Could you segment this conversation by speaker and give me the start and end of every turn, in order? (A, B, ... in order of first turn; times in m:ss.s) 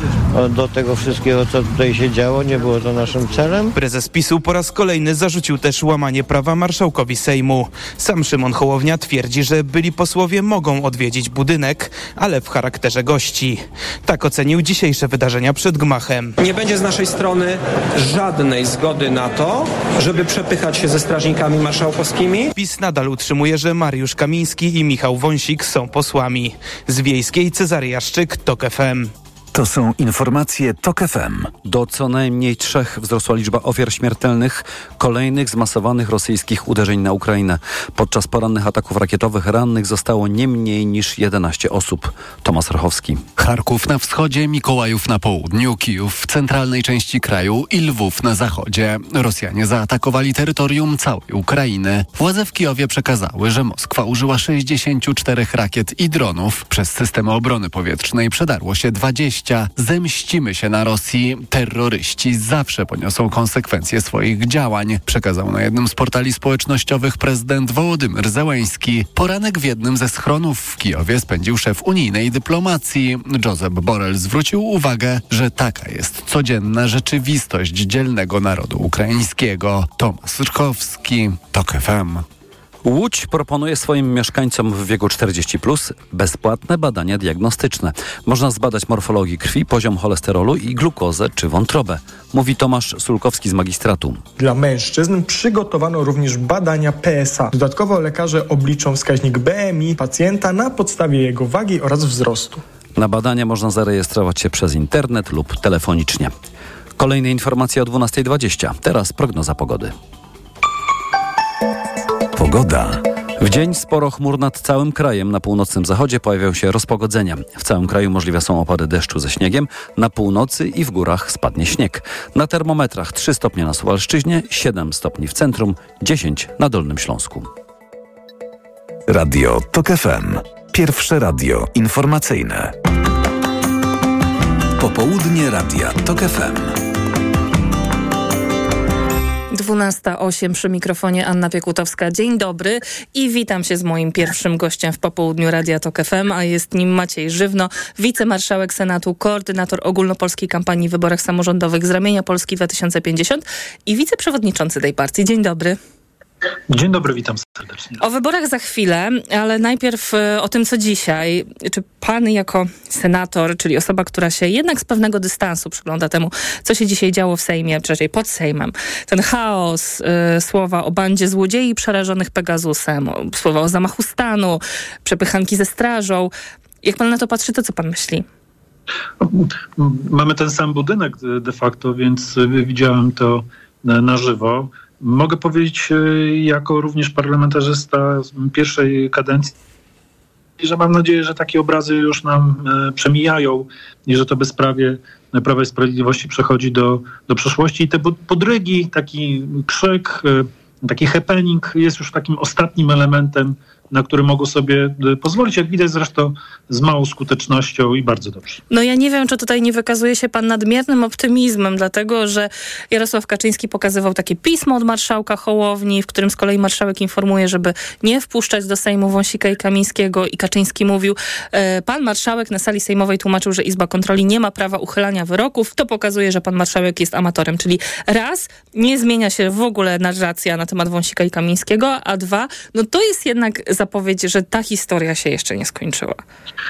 0:00.3-0:03.8 A
0:03.8-0:16.3 B
0:16.4-0:22.5 C
0:22.6-0:29.1 B
0:29.5-0:31.5 D
0:31.6-0:43.2 E
0:43.4-1:22.2 F
1:22.8-1:34.2 E
1:34.4-1:42.6 G
1:43.0-1:46.3 E
1:47.0-1:49.9 E
1:52.4-1:53.0 D
1:53.4-2:07.5 E
2:09.1-2:12.7 D
2:14.8-2:16.8 D
2:19.5-2:35.8 H
2:36.7-2:38.0 I
2:38.0-2:56.3 H
2:56.8-2:58.3 H
2:59.2-3:09.5 I
3:10.6-3:28.6 I
3:28.7-3:56.2 H